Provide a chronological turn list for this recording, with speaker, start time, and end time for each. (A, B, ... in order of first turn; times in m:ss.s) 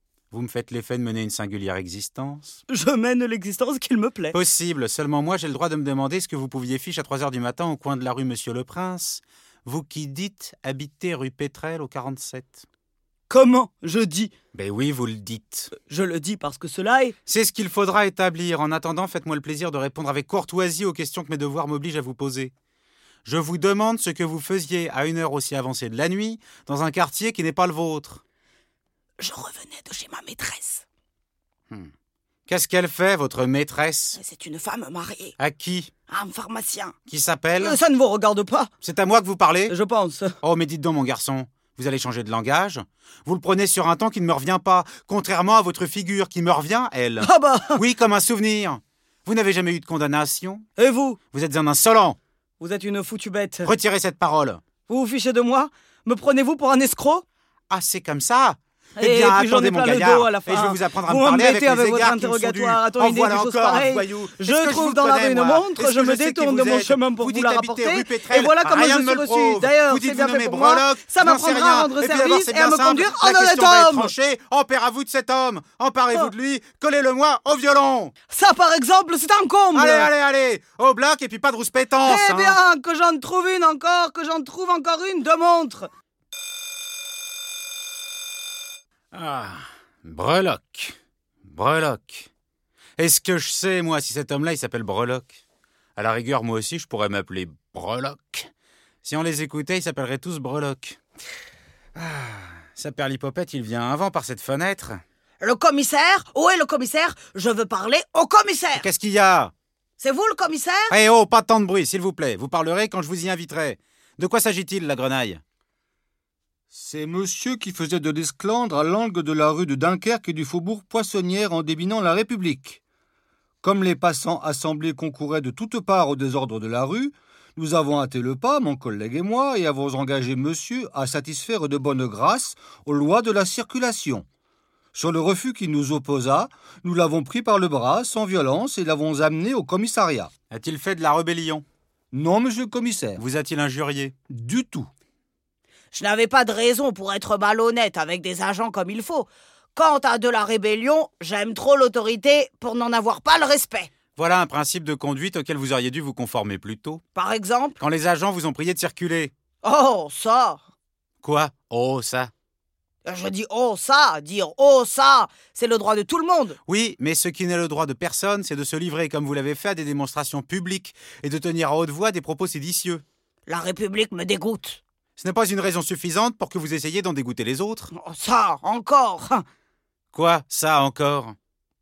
0:00.3-0:02.6 A
0:02.7-0:04.3 B
0:04.3-0:12.6 A
0:13.3-0:14.3 B
0:14.5-0:15.7 A
0:15.8-0:17.1 B
0:17.3-0:22.5 A
0:23.2-0:28.2 A
0:29.2-0:30.8 B
0:32.5-0:34.2 A
0:34.2-0:35.4 B
0:35.4-0:35.9 A
0:36.1-0:36.9 B
0:37.1-0:37.8 A
0:37.6-0:38.7 B
0:38.8-0:39.7 A
0:39.7-0:40.4 B
0:40.4-0:50.6 A
0:47.2-0:47.8 B
0:50.8-0:51.2 B
0:51.3-0:52.2 A
0:52.6-0:53.7 B
0:53.6-0:54.6 A
0:54.9-0:57.2 B
0:57.7-1:18.1 A
0:59.0-1:14.1 B
1:18.3-1:20.1 B
1:19.7-1:22.6 A
1:22.0-1:25.9 B
1:29.1-1:30.9 A
1:31.4-1:32.3 A
1:33.0-1:35.4 A
1:36.0-1:38.5 A
1:39.0-1:41.0 A
1:42.0-1:45.0 A
1:45.4-1:48.9 B
1:48.8-1:49.5 A
1:50.0-1:51.0 B
1:50.9-1:55.4 A
1:56.7-2:02.8 C
2:03.6-2:14.2 C
2:14.9-2:20.3 C
2:20.5-2:21.6 A
2:22.1-2:23.2 C
2:23.2-2:24.1 A
2:24.3-2:24.9 C
2:25.9-2:33.9 B
2:34.2-2:37.0 A
2:37.1-2:37.8 B
2:37.8-2:39.3 A
2:39.6-2:40.6 B
2:41.2-2:42.3 A
2:43.0-2:46.6 B
2:46.7-2:53.0 A
2:53.5-2:54.8 B
2:55.2-2:57.9 A
2:57.9-2:59.4 B
3:00.1-3:01.4 A